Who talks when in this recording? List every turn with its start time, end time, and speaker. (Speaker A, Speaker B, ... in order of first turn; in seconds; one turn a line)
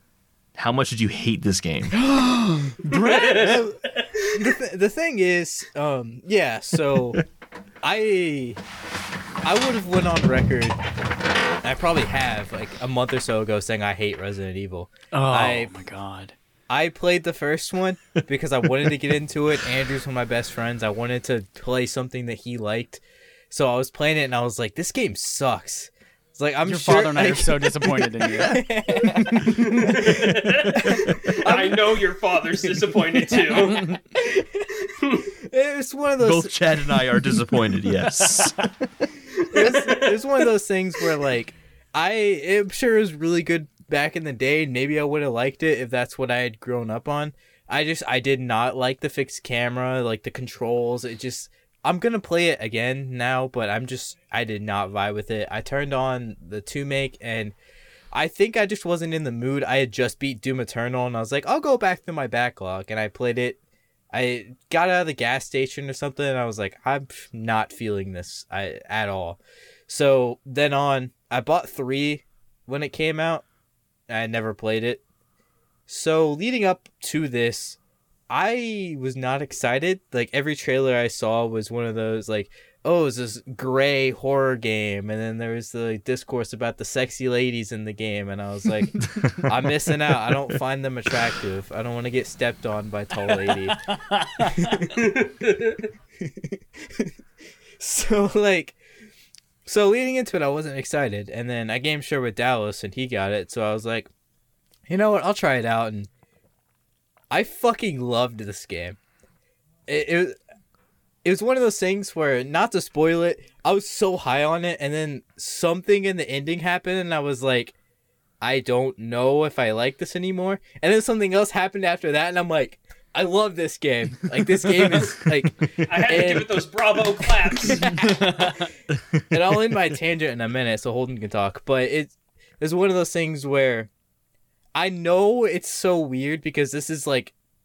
Speaker A: 0.6-1.9
Speaker B: 2.1-7.2
Speaker C: 2.9-3.1
Speaker D: 2.9-4.2
Speaker B: 7.8-8.6
Speaker B: 9.4-10.8
Speaker B: 11.6-15.7
Speaker C: 15.1-16.4
Speaker B: 16.7-32.1
Speaker C: 26.7-29.8
Speaker D: 29.6-34.2
Speaker B: 32.9-34.7
Speaker C: 33.5-34.0
Speaker D: 34.8-35.3
Speaker B: 35.4-37.3
Speaker A: 36.2-39.1
Speaker C: 38.1-38.6
Speaker B: 39.4-57.5
Speaker D: 39.6-40.5
Speaker B: 58.1-63.6
Speaker B: 64.1-73.5
Speaker B: 74.1-75.0
Speaker B: 75.9-77.8
Speaker B: 78.3-93.8
Speaker A: 89.1-89.5
Speaker C: 93.5-94.8
Speaker B: 94.4-95.2
Speaker D: 95.0-95.8
Speaker B: 96.2-97.1
Speaker B: 97.8-98.8
Speaker B: 99.6-104.1
Speaker B: 104.9-106.1
Speaker B: 107.3-109.0
Speaker B: 109.9-110.4
Speaker B: 111.2-117.8
Speaker B: 118.4-126.7
Speaker D: 125.8-128.4
Speaker B: 127.4-128.5
Speaker C: 128.2-128.5
Speaker B: 129.3-133.9
Speaker B: 134.8-137.3